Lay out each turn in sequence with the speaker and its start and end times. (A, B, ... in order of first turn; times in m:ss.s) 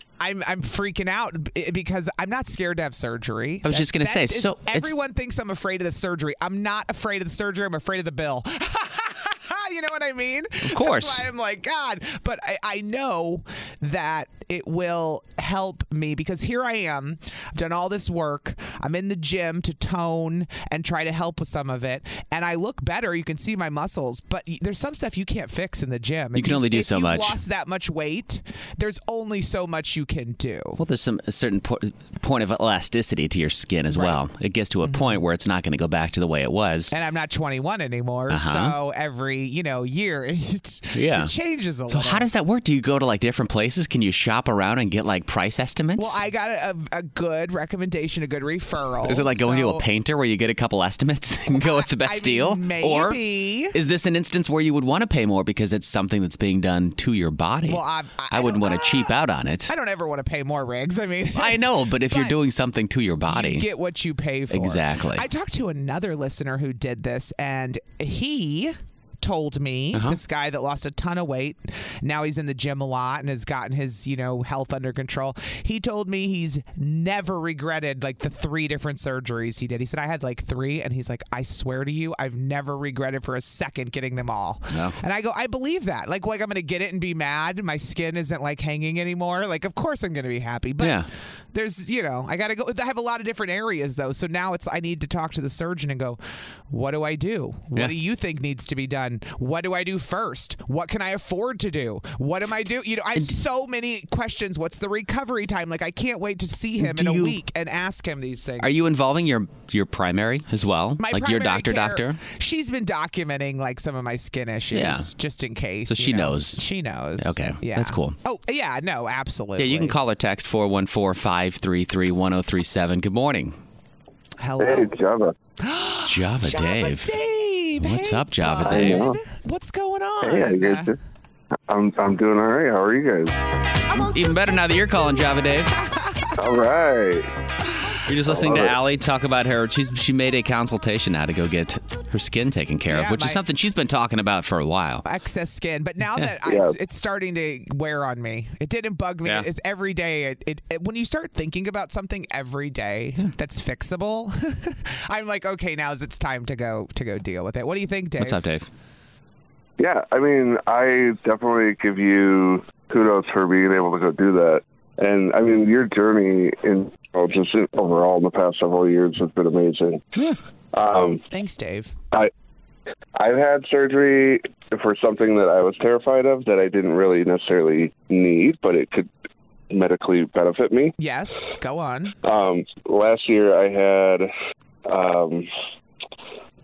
0:00.2-0:30.8 A
0:03.6-0:04.9 B
0:10.6-0:11.2 B
0:26.4-0:27.4 B
0:30.8-0:36.9 B
0:33.9-0:34.2 A
0:34.8-0:35.2 A
0:36.9-0:42.3 A
0:38.3-0:38.8 B
0:40.9-0:41.3 B
0:41.9-0:46.2 B
0:46.0-0:49.8 A
0:49.0-0:53.2 B
0:51.6-0:53.8 A
0:53.7-0:59.7 B
0:57.7-0:59.1 A
0:59.7-1:02.4 A
1:01.4-1:03.7 B
1:03.3-1:48.7 A
1:04.5-1:05.2 B
1:09.9-1:10.2 B
1:24.7-1:25.0 B
1:30.8-1:31.1 B
1:46.8-1:47.4 B
1:48.6-1:52.2 B
1:51.0-2:00.0 A
1:54.7-1:55.1 B
1:55.9-1:56.6 B
1:57.2-1:58.2 B
1:59.6-2:03.6 B
2:04.4-2:04.9 A
2:04.6-2:05.3 C
2:05.6-2:10.9 A
2:06.0-2:07.1 B
2:07.8-2:09.0 B
2:08.7-2:09.2 C
2:10.2-2:11.0 C
2:11.7-2:13.3 C
2:13.9-2:15.8 B
2:15.9-2:16.3 A
2:16.4-2:17.3 C
2:18.1-2:25.0 B
2:18.3-2:18.8 C
2:22.9-2:23.4 A
2:25.0-2:38.4 A
2:26.4-2:26.8 C
2:38.2-2:38.7 B
2:39.8-2:50.1 C
2:50.7-2:51.2 C
2:51.3-2:51.9 A
2:53.2-2:59.1 C
2:59.7-3:00.9 C
3:01.0-3:02.1 A
3:02.2-3:04.3 C
3:04.9-3:05.5 C